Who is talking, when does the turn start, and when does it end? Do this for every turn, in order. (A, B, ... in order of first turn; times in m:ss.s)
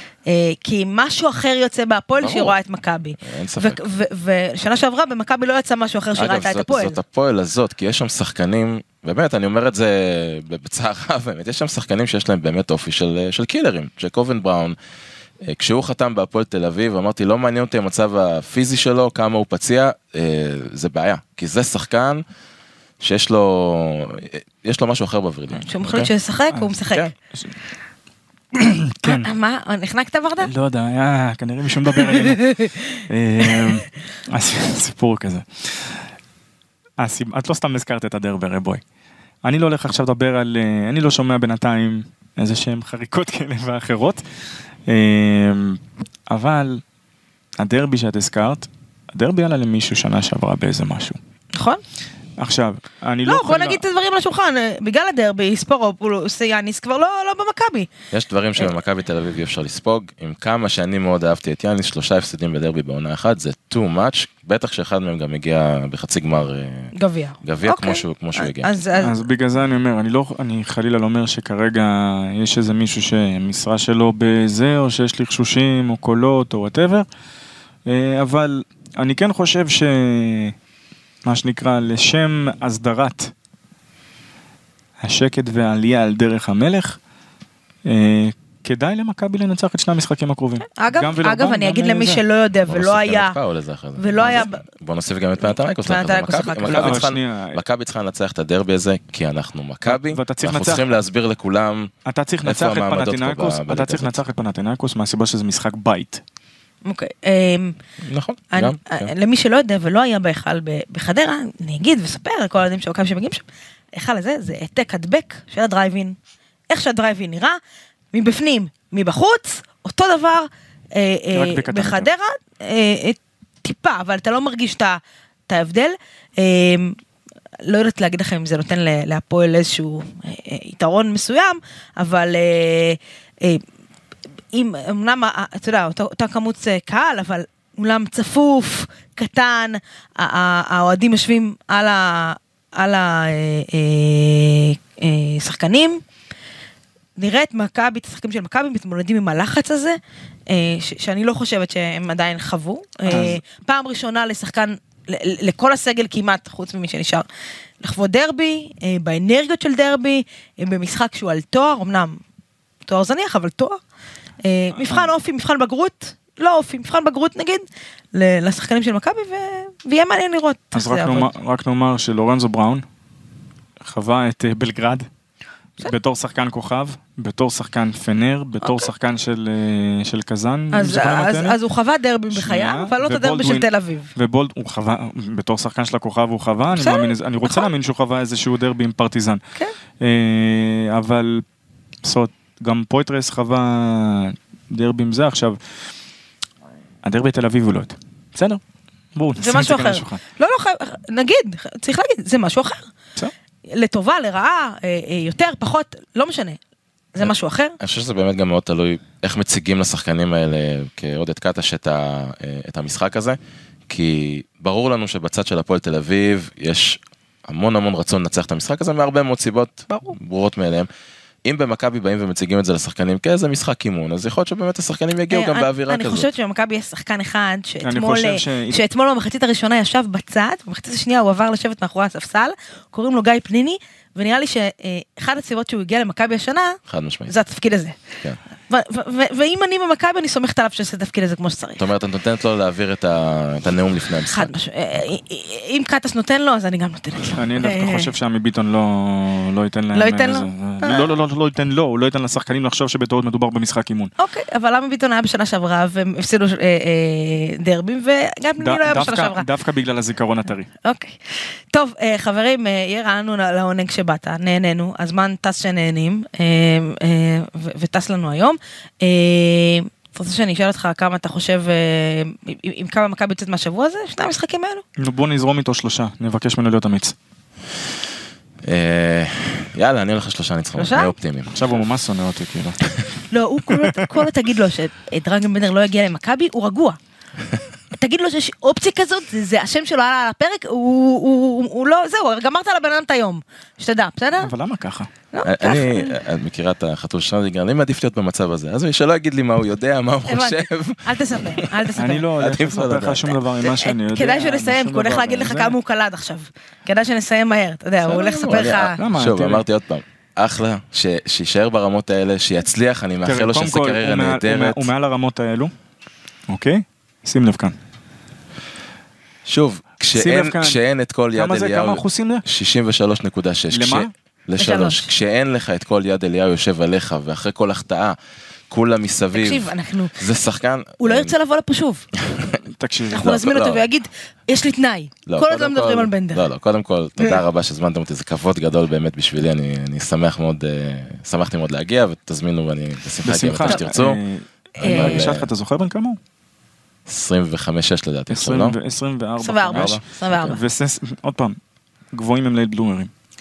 0:00.3-0:07.0 A
0:02.2-0:02.6 B
0:03.2-0:03.8 B
0:06.2-0:14.8 B
0:15.4-0:22.2 B
0:23.0-0:26.1 B
0:25.6-0:27.1 A
0:28.6-0:29.3 C
0:29.0-0:30.5 A
0:30.4-0:36.1 C
0:32.0-0:32.9 A
0:33.4-0:33.8 A
0:37.0-0:38.8 C
0:39.4-0:44.2 C
0:44.9-0:46.8 C
0:47.6-0:51.2 C
0:51.6-0:51.8 A
0:52.4-0:53.8 C
0:53.3-0:57.9 A
0:58.1-1:08.7 B
1:07.0-1:09.2 A
1:09.0-1:17.1 C
1:17.9-1:20.6 C
1:21.2-1:23.3 C
1:25.0-1:27.0 C
1:27.8-1:32.2 C
1:30.7-1:33.4 A
1:32.7-1:41.9 B
1:34.0-1:34.6 A
1:35.8-1:37.0 A
1:36.7-1:37.6 C
1:39.8-1:40.8 C
1:42.1-1:46.2 C
1:42.4-1:44.2 B
1:46.8-1:47.8 A
1:48.0-1:49.1 B
1:48.5-1:56.2 A
1:56.7-1:57.6 A
1:58.1-2:07.0 A
2:01.3-2:02.1 C
2:07.6-2:13.6 A
2:14.5-2:26.0 A
2:27.2-2:30.0 A
2:30.5-2:37.3 A
2:33.1-2:33.4 C
2:37.8-2:42.2 A
2:42.9-2:43.8 A
2:44.4-2:51.3 A
2:44.8-2:45.1 C
2:50.7-2:52.8 C
2:53.8-2:55.1 C
2:55.8-3:01.6 C
2:58.6-2:58.9 A
3:00.7-3:04.1 A
3:02.3-3:09.4 C
3:06.8-3:07.7 A
3:10.0-3:11.4 C
3:12.0-3:15.6 C
3:17.0-3:18.6 C
3:19.1-3:20.2 C
3:19.4-3:22.9 A
3:23.7-3:26.6 A
3:27.1-3:27.8 A
3:27.2-3:33.4 B
3:33.9-3:40.9 B
3:39.9-3:40.2 A
3:41.4-3:46.3 B
3:45.3-3:58.0 A
3:47.8-3:48.8 C
3:56.9-3:57.3 B
3:58.7-4:01.8 A
4:01.8-4:04.5 B
4:04.3-4:08.1 A
4:07.4-4:14.1 C
4:09.9-4:11.1 A
4:14.2-4:19.4 A
4:18.6-4:20.7 C
4:20.8-4:34.8 A
4:35.0-4:37.1 C
4:38.6-4:41.5 B
4:40.8-4:41.1 A
4:41.5-4:42.8 C
4:43.3-4:47.0 A
4:47.9-4:54.5 A
4:54.4-4:55.1 C
4:55.3-4:56.2 A
4:55.4-5:03.4 B
5:00.3-5:02.3 A
5:02.0-5:05.7 C
5:03.6-5:09.0 A
5:08.0-5:14.9 B
5:09.0-5:09.6 C
5:13.2-5:15.7 C
5:16.5-5:17.8 C
5:19.4-5:28.2 B
5:20.1-5:20.8 C
5:21.4-5:22.4 C
5:23.7-5:24.1 C
5:24.6-5:25.0 A
5:28.7-5:31.3 B
5:29.3-5:30.2 A
5:31.0-5:32.1 A
5:32.2-5:32.6 B
5:32.6-5:33.3 C
5:33.1-5:36.4 A
5:33.2-5:33.8 B
5:35.3-5:44.2 B
5:43.2-5:46.2 C
5:44.8-5:45.5 B
5:44.8-5:45.3 A
5:47.1-5:48.8 B
5:48.3-5:51.6 C
5:49.4-5:50.6 A
5:49.7-5:50.0 B
5:52.1-5:53.1 C